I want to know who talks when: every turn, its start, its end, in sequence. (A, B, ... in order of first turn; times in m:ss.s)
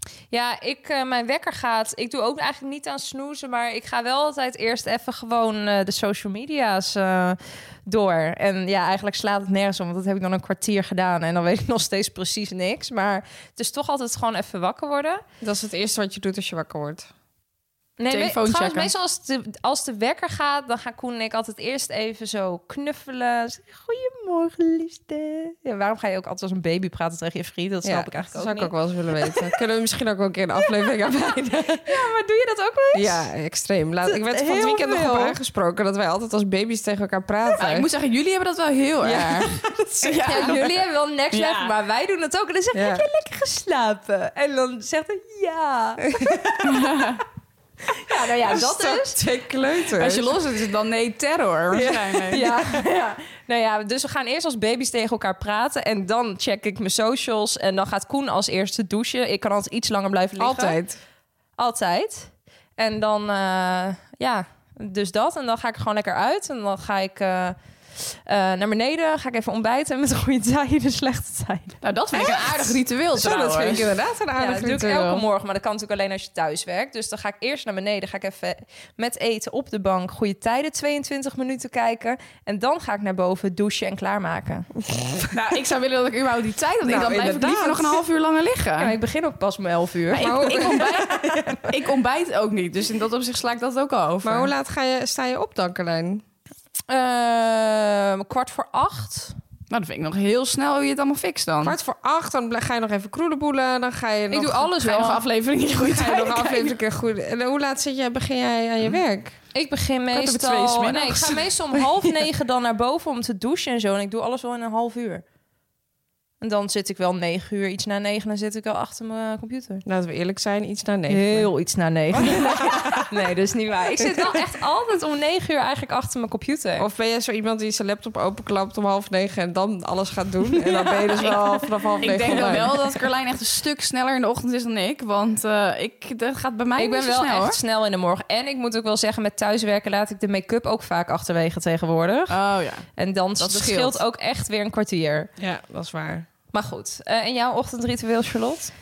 0:00.3-0:15.2 A
0:15.4-0:17.1 B
0:18.0-0:29.5 A
0:18.1-0:18.9 C
0:27.8-0:32.0 B
0:31.7-0:33.2 A
0:32.9-0:37.9 B
0:34.0-0:35.4 A
0:37.6-0:40.6 C
0:39.0-0:40.7 B
0:40.2-0:46.4 A
0:41.3-0:41.8 C
0:42.7-0:43.1 B
0:46.2-0:46.8 B
0:46.6-0:47.2 C
0:48.0-0:49.2 A
0:48.4-0:50.4 B
0:50.0-0:52.4 C
0:51.7-0:52.6 B
0:52.3-1:00.8 A
1:00.4-1:01.0 B
1:01.6-1:12.7 A
1:11.8-1:13.9 C
1:12.2-1:12.5 B
1:13.2-1:15.2 B
1:14.4-1:24.7 A
1:24.9-1:25.3 B
1:25.3-1:28.9 C
1:26.8-1:28.0 B
1:28.8-1:31.0 A
1:30.1-1:34.5 C
1:30.2-1:31.7 B
1:34.2-1:36.2 B
1:36.9-1:39.4 A
1:39.7-1:41.8 C
1:41.6-1:44.7 B
1:44.3-1:45.2 A
1:44.8-1:46.8 C
1:45.8-1:49.4 B
1:49.5-1:55.2 A
1:50.1-1:51.4 C
1:56.4-1:59.8 A
1:59.9-2:01.5 B
2:01.1-2:06.9 A
2:02.2-2:03.1 B
2:04.0-2:04.4 B
2:06.8-2:12.8 B
2:10.6-2:11.4 A
2:12.0-2:17.6 C
2:16.8-2:22.4 A
2:22.3-2:22.9 C
2:23.0-2:25.3 A
2:23.4-2:24.0 C
2:25.4-2:26.3 B
2:26.5-2:28.7 A